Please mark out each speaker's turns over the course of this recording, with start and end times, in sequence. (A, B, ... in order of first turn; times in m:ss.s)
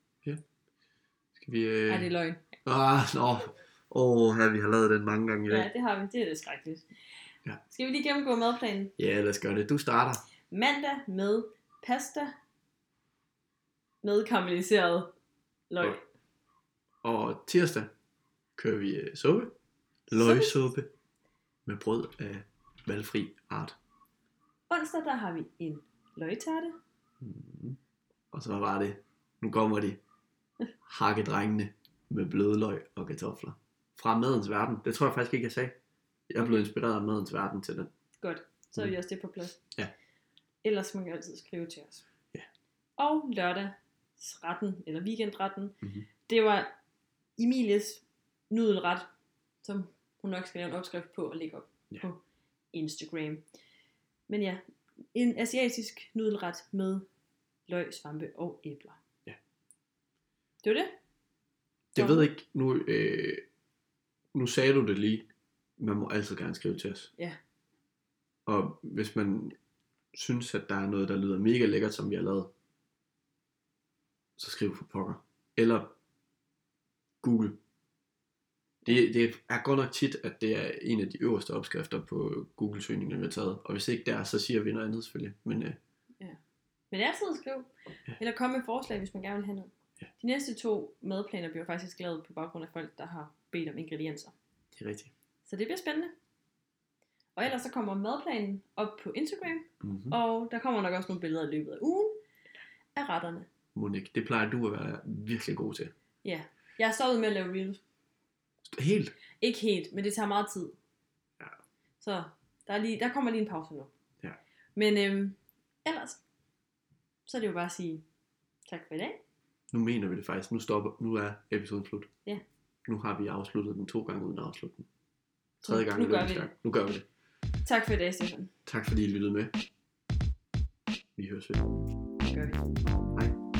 0:01.3-0:02.1 A
0:01.9-0:02.5 B
0:02.6-0:05.7 A
0:05.5-0:06.8 B
0:07.6-0:08.9 B
0:09.0-0:10.2 A
0:10.5-0:12.3 B
0:14.0-0:15.1 B
0:15.7-0:16.0 B
0:17.0-0:17.9 A
0:18.6-0:19.5 A
0:20.1-0:20.9 A
0:20.1-0:20.6 B
0:21.6-0:23.8 A
0:24.7-0:26.8 B
0:27.2-0:27.8 A
0:28.3-0:30.0 A
0:30.8-0:35.8 A
0:36.3-0:37.9 A
0:38.2-0:39.6 B
0:40.6-0:42.0 B
0:43.0-0:46.7 B
0:45.8-0:46.1 A
0:47.4-0:49.1 B
0:49.6-0:52.2 B
0:52.7-0:53.4 B
0:54.3-0:54.6 B
0:55.1-0:57.0 B
0:57.7-0:59.0 B
1:00.6-1:00.9 B
1:01.9-1:03.4 A
1:02.0-1:02.3 B
1:04.3-1:05.3 A
1:05.8-1:07.1 A
1:08.4-1:09.6 A
1:10.1-1:12.5 A
1:14.4-1:15.9 A
1:17.2-1:17.6 A
1:18.8-1:25.8 A
1:26.9-1:34.3 B
1:34.7-1:35.1 A
1:35.4-1:36.1 B
1:37.4-1:42.1 B
1:39.8-1:40.2 A
1:42.9-1:43.5 B
1:43.7-1:45.9 A
1:46.2-1:47.8 B
1:48.7-1:49.1 A
1:49.4-1:50.8 B
1:52.0-1:53.9 B
1:54.8-1:56.2 B
1:57.2-1:58.0 B
1:58.7-1:59.2 B
1:59.7-2:02.1 A
2:02.9-2:04.9 A
2:05.6-2:07.0 A
2:05.6-2:06.5 B
2:07.6-2:08.5 B
2:08.6-2:09.5 A
2:11.2-2:11.6 A
2:12.3-2:12.6 B